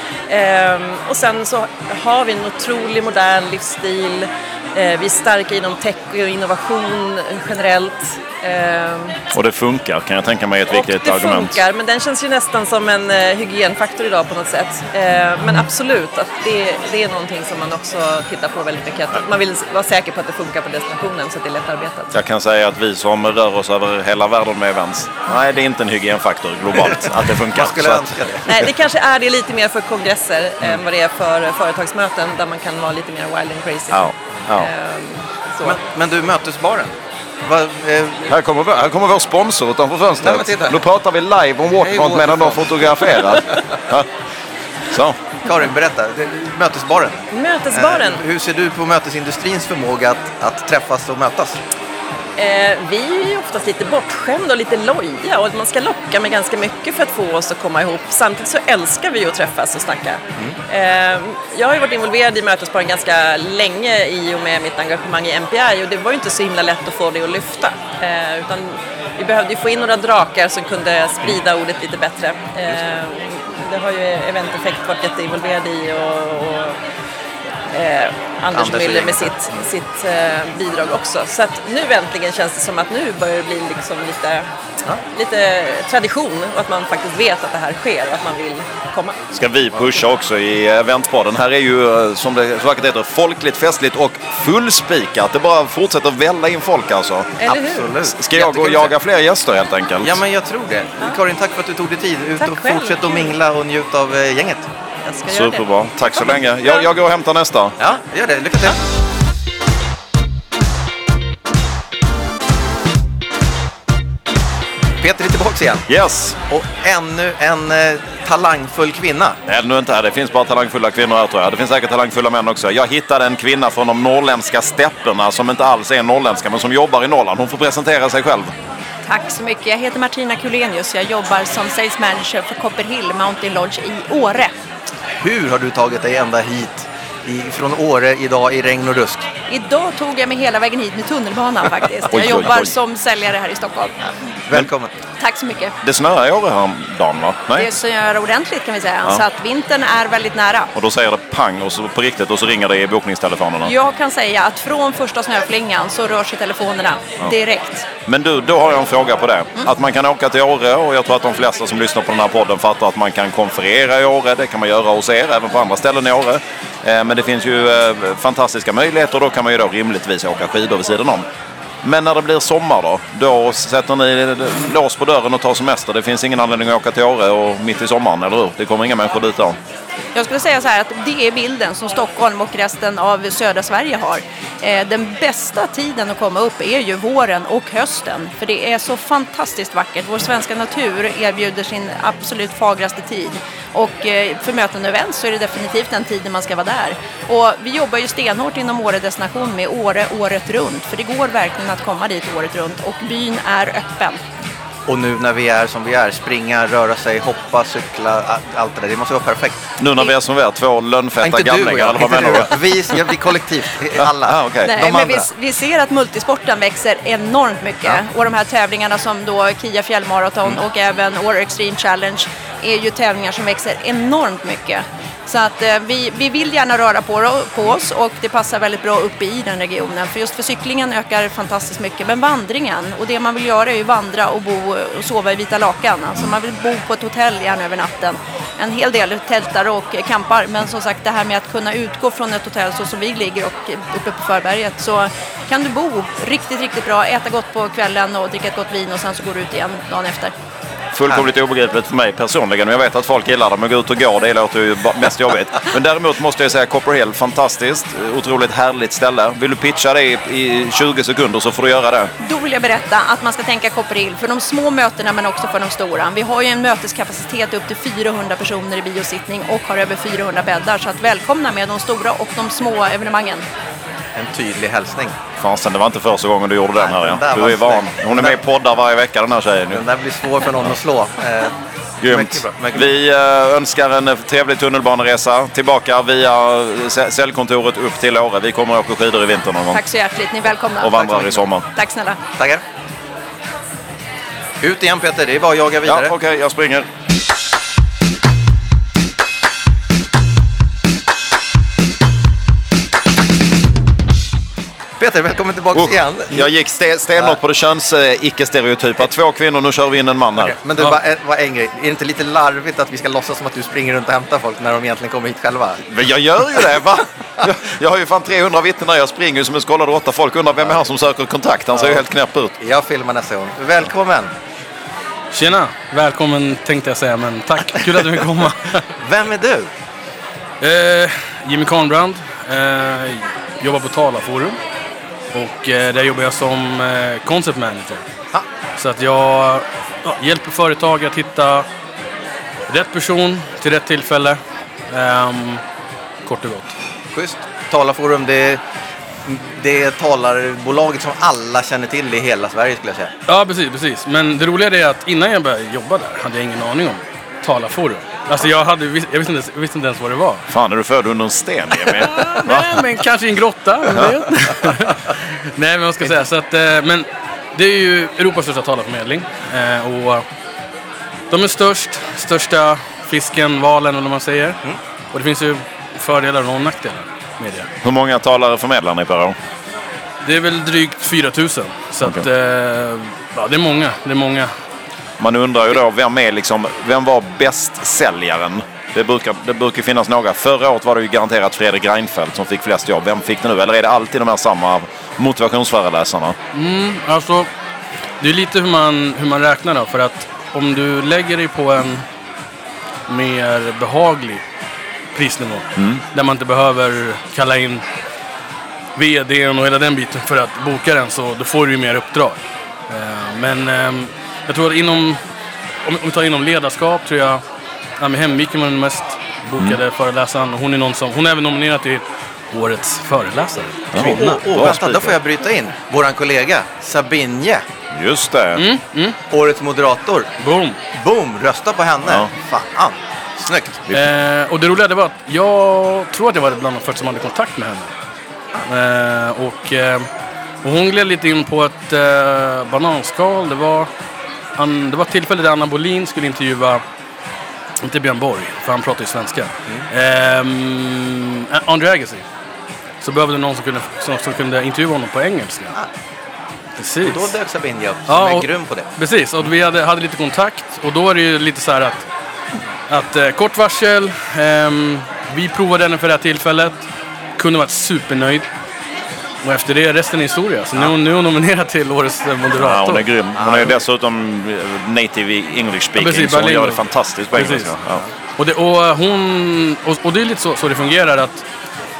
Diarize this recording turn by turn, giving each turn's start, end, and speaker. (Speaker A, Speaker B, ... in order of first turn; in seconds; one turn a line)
Speaker A: 0.3-9.2
Speaker B: 9.3-11.6
Speaker A: 10.7-22.1
Speaker B: 22.1-28.7
Speaker C: 27.5-28.7
Speaker A: 28.4-35.8
Speaker B: 33.9-34.7
Speaker C: 35.6-36.9
Speaker C: 37.5-38.3
Speaker B: 38.3-44.1
Speaker C: 40.2-40.8
Speaker C: 41.7-43.6
Speaker B: 44.9-45.2
Speaker C: 45.5-51.6
Speaker A: 47.3-48.2
Speaker A: 52.4-76.8
Speaker A: 77.7-84.5
Speaker C: 78.5-79.7
Speaker A: 85.1-89.2
Speaker B: 89.3-97.3
Speaker A: 97.4-97.9
Speaker C: 97.5-98.9
Speaker B: 98.0-100.2
Speaker C: 100.0-104.7
Speaker A: 102.4-103.3
Speaker A: 105.0-105.7
Speaker B: 105.3-107.8
Speaker C: 107.8-108.8
Speaker C: 115.0-115.9
Speaker B: 115.9-116.4
Speaker C: 116.5-119.4
Speaker B: 119.5-128.5
Speaker D: 129.1-134.5
Speaker C: 135.2-139.3
Speaker D: 139.5-143.9
Speaker B: 142.1-142.7
Speaker C: 144.5-144.9
Speaker D: 145.2-145.7
Speaker B: 145.8-147.7
Speaker D: 147.6-150.7
Speaker B: 150.8-153.7
Speaker D: 153.6-157.8
Speaker B: 158.1-171.3
Speaker B: 171.8-179.6
Speaker D: 180.2-204.2
Speaker C: 204.9-209.7
Speaker B: 209.8-212.6
Speaker C: 211.2-215.3
Speaker B: 214.0-214.8
Speaker D: 214.6-250.3
Speaker B: 250.9-262.1
Speaker D: 262.2-273.4
Speaker C: 274.1-275.2
Speaker B: 275.4-279.8
Speaker C: 276.8-278.4
Speaker C: 279.7-281.6
Speaker B: 282.0-289.8
Speaker C: 282.1-282.9
Speaker D: 289.7-292.2
Speaker B: 290.8-291.6
Speaker C: 294.6-296.1
Speaker B: 295.9-296.9
Speaker C: 305.0-306.5
Speaker B: 305.7-310.9
Speaker C: 310.4-315.8
Speaker B: 315.9-322.6
Speaker C: 321.8-322.0
Speaker C: 322.6-324.3
Speaker E: 325.3-328.8
Speaker C: 329.0-329.7
Speaker E: 330.6-334.6
Speaker E: 335.3-338.1
Speaker E: 338.8-341.7
Speaker E: 342.7-344.4
Speaker E: 344.9-345.6
Speaker E: 346.2-346.7
Speaker C: 347.1-348.6
Speaker C: 349.3-353.1
Speaker E: 353.3-360.4
Speaker B: 360.5-362.8
Speaker E: 362.0-370.2
Speaker B: 363.9-364.2
Speaker E: 371.3-374.6
Speaker E: 375.1-377.7
Speaker B: 377.8-379.4
Speaker E: 380.2-384.5
Speaker B: 385.2-396.4
Speaker E: 396.5-397.5
Speaker E: 398.2-402.0
Speaker E: 403.1-404.4
Speaker E: 405.1-407.8
Speaker B: 405.8-406.0
Speaker E: 409.0-412.4
Speaker E: 412.9-415.2
Speaker E: 415.9-417.4
Speaker E: 418.0-424.4
Speaker B: 423.9-425.2
Speaker C: 424.0-427.7
Speaker B: 427.9-428.6
Speaker E: 428.6-429.2
Speaker C: 429.3-430.3
Speaker E: 430.4-430.8
Speaker C: 431.0-433.8
Speaker B: 432.0-432.3
Speaker E: 433.9-437.9
Speaker E: 438.7-440.1
Speaker E: 440.6-443.9
Speaker E: 444.6-446.8
Speaker E: 447.9-452.2
Speaker E: 453.0-455.7
Speaker E: 456.8-457.3
Speaker C: 457.0-458.9
Speaker E: 458.1-462.1
Speaker E: 462.9-466.8
Speaker E: 467.4-468.5
Speaker E: 469.4-473.1
Speaker B: 472.5-478.0
Speaker C: 473.4-473.7
Speaker E: 476.0-476.8
Speaker E: 477.3-477.7
Speaker E: 478.4-481.4